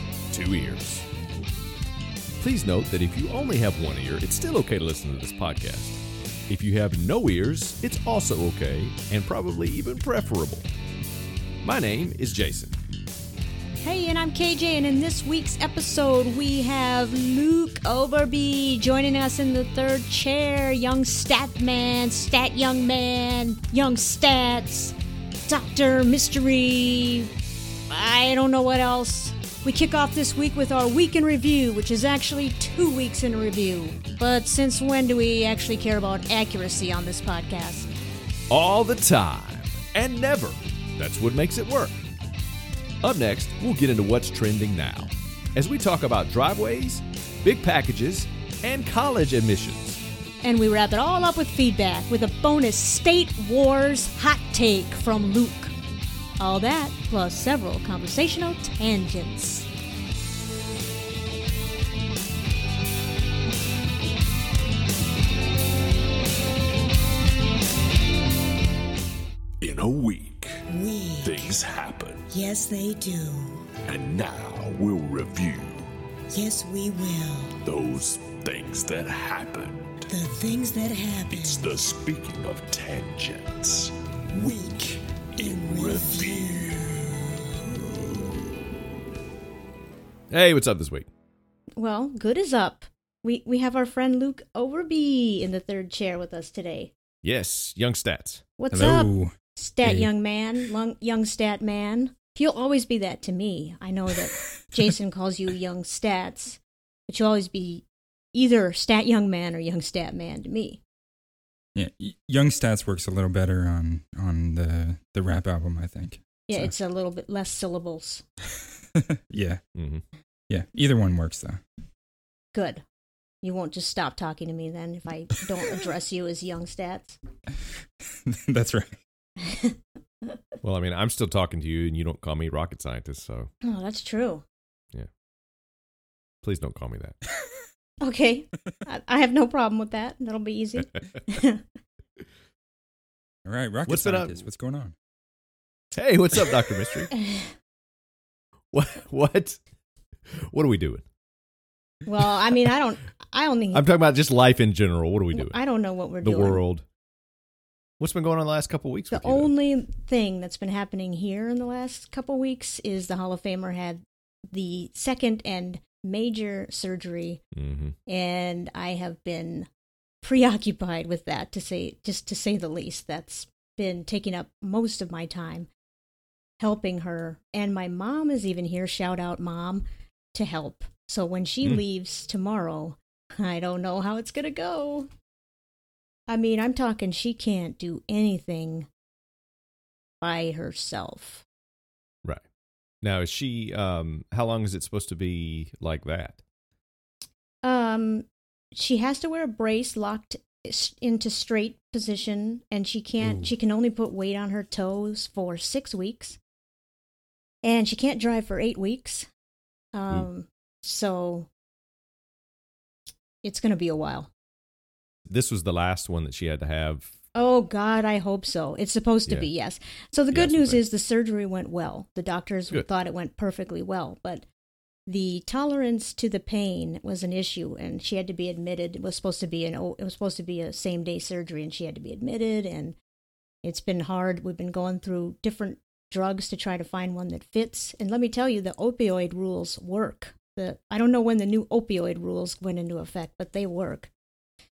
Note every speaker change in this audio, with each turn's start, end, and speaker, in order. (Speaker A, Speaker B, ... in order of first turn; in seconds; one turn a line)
Speaker A: 0.3-1.1
Speaker A: 2.4-10.7
Speaker A: 11.6-12.8
Speaker B: 13.8-27.3
Speaker B: 27.9-37.9
Speaker A: 38.5-42.0
Speaker A: 43.0-50.0
Speaker B: 50.4-55.7
Speaker B: 56.4-59.7
Speaker C: 69.6-70.6
Speaker D: 70.7-71.6
Speaker C: 71.2-72.3
Speaker D: 72.3-73.7
Speaker C: 73.8-75.9
Speaker D: 76.3-77.6
Speaker C: 77.6-80.1
Speaker D: 80.1-81.8
Speaker C: 81.3-87.0
Speaker D: 84.3-87.1
Speaker A: 90.3-91.1
Speaker B: 91.8-96.9
Speaker A: 97.2-98.4
Speaker B: 98.6-110.8
Speaker E: 98.7-100.1
Speaker E: 111.8-116.7
Speaker B: 116.5-118.2
Speaker E: 119.0-119.6
Speaker A: 119.8-120.0
Speaker E: 120.5-121.6
Speaker B: 122.5-122.8
Speaker B: 123.4-127.2
Speaker E: 128.2-129.0
Speaker B: 129.4-129.8
Speaker A: 130.6-133.5
Speaker B: 133.6-134.4
Speaker A: 136.4-137.2
Speaker B: 138.0-141.6
Speaker E: 143.5-144.9
Speaker A: 143.9-144.4
Speaker A: 145.9-147.1
Speaker B: 147.2-147.5
Speaker A: 148.7-149.6
Speaker A: 150.3-151.1
Speaker B: 152.1-153.9
Speaker A: 153.7-155.6
Speaker B: 155.3-156.6
Speaker A: 156.2-156.9
Speaker A: 158.0-159.5
Speaker B: 159.1-167.4
Speaker A: 167.5-168.0
Speaker B: 168.1-169.7
Speaker B: 170.2-175.7
Speaker B: 176.6-185.1
Speaker B: 186.3-188.9
Speaker B: 190.2-191.4
Speaker A: 193.0-196.4
Speaker B: 197.6-206.4
Speaker A: 203.2-203.5
Speaker B: 207.6-209.3
Speaker B: 209.9-211.5
Speaker B: 213.4-214.3
Speaker A: 215.3-217.1
Speaker B: 217.3-224.5
Speaker A: 220.3-220.8
Speaker B: 225.1-233.0
Speaker B: 233.6-244.1